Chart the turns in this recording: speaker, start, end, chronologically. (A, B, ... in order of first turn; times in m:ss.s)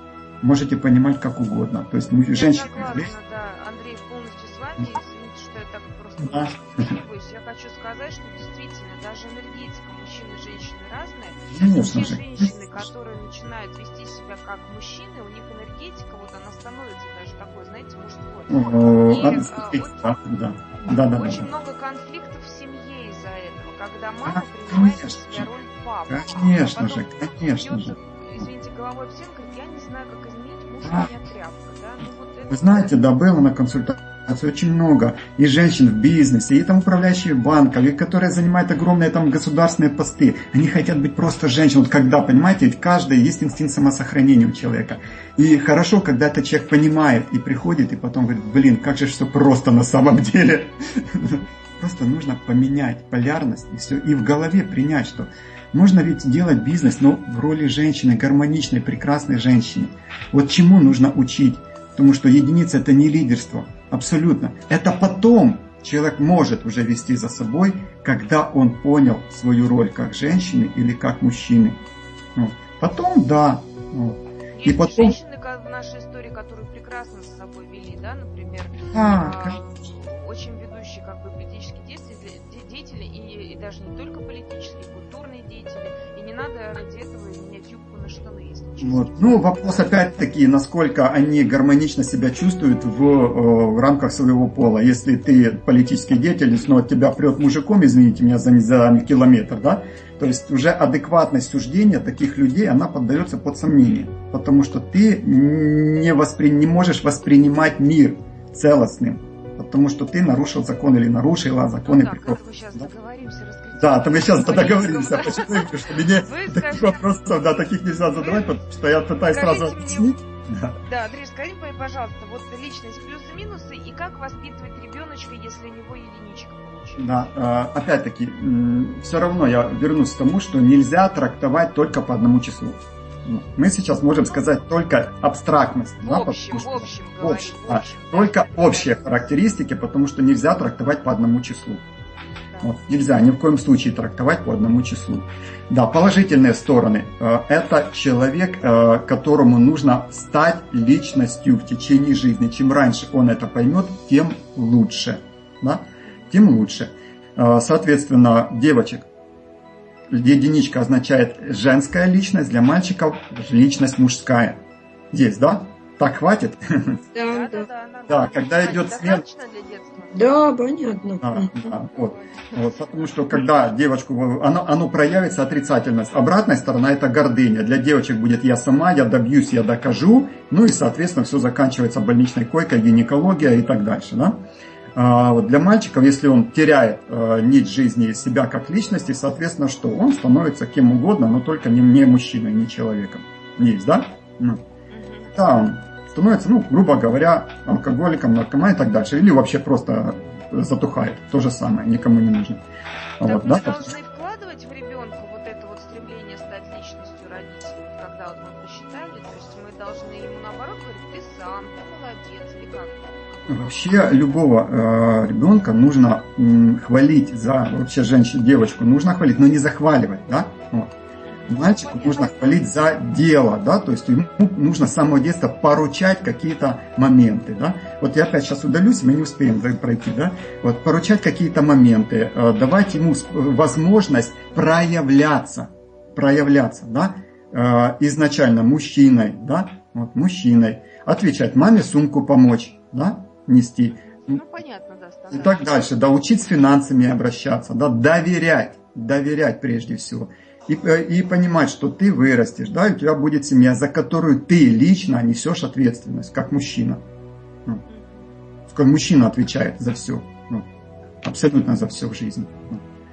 0:00.4-0:03.1 A
0:02.3-0:20.2 B
0:06.2-0:06.9 A
0:11.5-0:12.5 A
0:18.5-0:21.4 A
0:20.8-0:32.9 B
0:24.2-0:25.5 A
0:26.1-0:28.4 A
0:30.8-0:31.1 A
0:32.5-1:11.8 A
0:44.9-0:45.2 B
1:12.3-1:15.2 A
1:14.5-1:30.0 B
1:18.9-1:19.6 A
1:28.8-1:52.9 A
1:51.8-1:57.1 B
1:53.8-2:00.8 A
1:58.1-1:58.6 B
1:59.2-2:00.1 B
2:00.8-2:07.4 B
2:07.0-2:21.8 A
2:16.0-2:19.2 B
2:22.4-2:23.0 B
2:22.6-2:39.0 A
2:36.0-2:36.3 B
2:40.1-2:47.0 A
2:47.1-2:47.7 C
2:47.2-2:50.3 B
2:48.1-2:49.2 A
2:50.1-2:51.7 C
2:51.2-3:14.6 A
2:51.9-2:53.0 B
3:14.9-3:15.4 B
3:15.3-3:22.6 A
3:23.2-3:23.9 A
3:23.2-3:33.9 B
3:33.5-3:40.9 A
3:41.2-3:42.6 B
3:41.5-4:04.4 A
4:03.9-4:05.8 B
4:05.3-4:17.0 A
4:17.9-4:18.3 B
4:18.7-4:20.6 A
4:21.2-4:22.8 A